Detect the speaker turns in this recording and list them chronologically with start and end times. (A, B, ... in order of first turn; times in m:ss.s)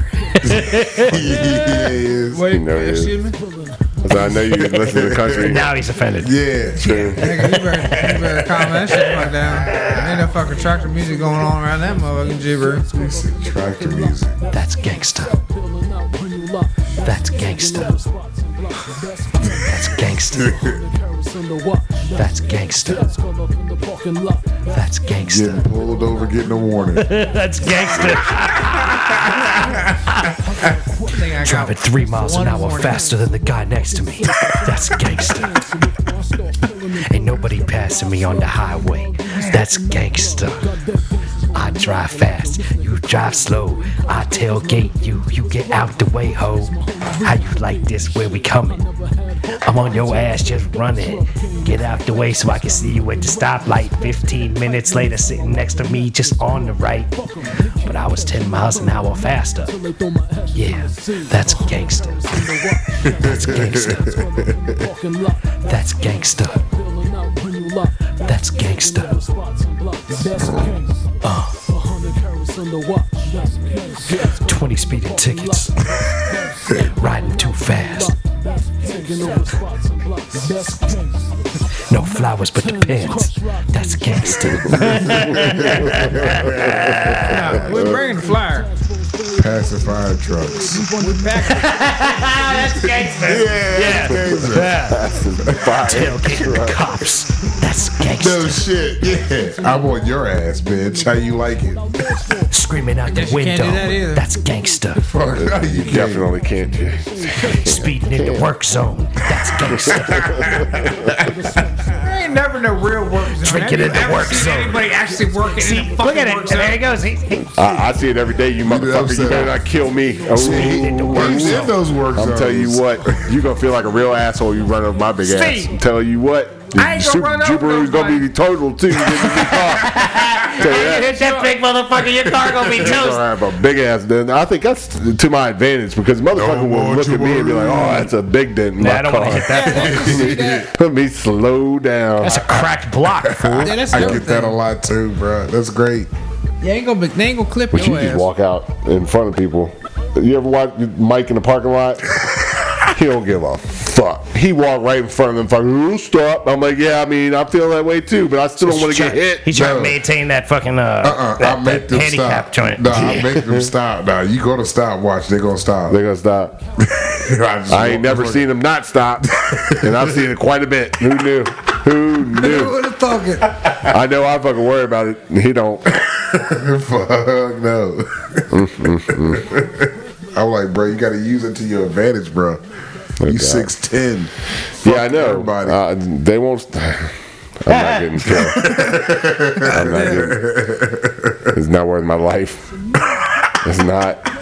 0:00.2-0:01.3 A
0:00.4-0:02.5 B
0:02.3-0:03.4 C
0:02.4-0:03.2 D
0:04.0-0:05.6 D
0:04.1-0:05.6 B
0:05.4-0:06.4 A
0:06.2-0:07.1 B
0:06.8-0:07.4 D
0:07.1-0:12.9 C
0:07.4-0:08.3 A
0:08.9-0:09.9 A
0:12.9-0:14.4 B
0:14.5-0:15.4 A
0:17.0-0:18.0 A
0:19.4-0:20.7 A
0:20.4-0:20.7 B
0:22.1-0:23.2 A
0:24.7-0:25.6 A
0:25.2-0:27.1 B
0:26.9-0:30.4 A
0:31.1-0:33.0 C
0:31.4-0:35.7 A
0:36.9-0:40.7 A
0:41.5-0:48.8 A
0:49.6-0:57.2 A
0:57.8-0:59.7 A
1:00.5-1:04.2 A
1:03.0-1:04.8 B
1:05.6-1:06.6 A
1:08.2-1:09.2 A
1:10.4-1:10.7 B
1:11.2-1:11.6 A
1:14.2-1:18.1 A
1:21.9-1:27.5 A
1:24.6-1:27.0 B
1:26.2-1:28.0 D
1:27.2-1:28.7 C
1:29.3-1:30.9 B
1:31.0-1:31.7 C
1:31.4-1:35.0 A
1:33.2-1:35.8 B
1:33.7-1:36.9 D
1:35.7-1:38.7 A
1:38.0-1:42.2 B
1:42.5-1:45.0 A
1:43.1-1:44.2 C
1:45.0-1:46.4 B
1:45.4-1:48.5 D
1:47.4-1:50.7 A
1:49.9-1:50.6 D
1:50.2-1:51.6 B
1:52.0-1:56.9 C
1:53.4-1:54.9 A
1:55.5-1:57.8 A
1:57.5-2:11.1 D
1:58.6-1:59.6 B
2:00.3-2:03.3 B
2:00.3-2:01.8 A
2:05.2-2:05.7 C
2:06.7-2:08.3 C
2:09.3-2:13.2 A
2:10.6-2:11.5 C
2:12.5-2:22.6 D
2:16.3-2:18.1 B
2:18.8-2:20.1 A
2:19.4-2:20.7 C
2:19.7-2:20.6 B
2:22.2-2:23.9 A
2:23.2-2:26.1 B
2:23.4-2:24.2 D
2:23.6-2:24.6 C
2:26.6-2:28.3 C
2:27.7-2:32.2 D
2:32.9-2:39.5 D
2:38.6-2:43.2 A
2:39.5-2:40.0 B
2:41.0-2:46.0 B
2:43.0-2:43.6 D
2:45.9-2:46.6 D
2:46.8-2:48.5 B
2:47.7-2:52.8 D
2:49.3-2:50.2 B
2:52.3-2:53.6 C
2:53.7-2:55.9 D
2:56.0-3:02.6 B
2:58.5-2:59.5 D
3:03.2-3:03.7 D
3:03.2-3:05.8 B
3:04.8-3:10.6 D
3:08.4-3:11.5 B
3:11.5-3:12.7 D
3:13.5-3:14.3 D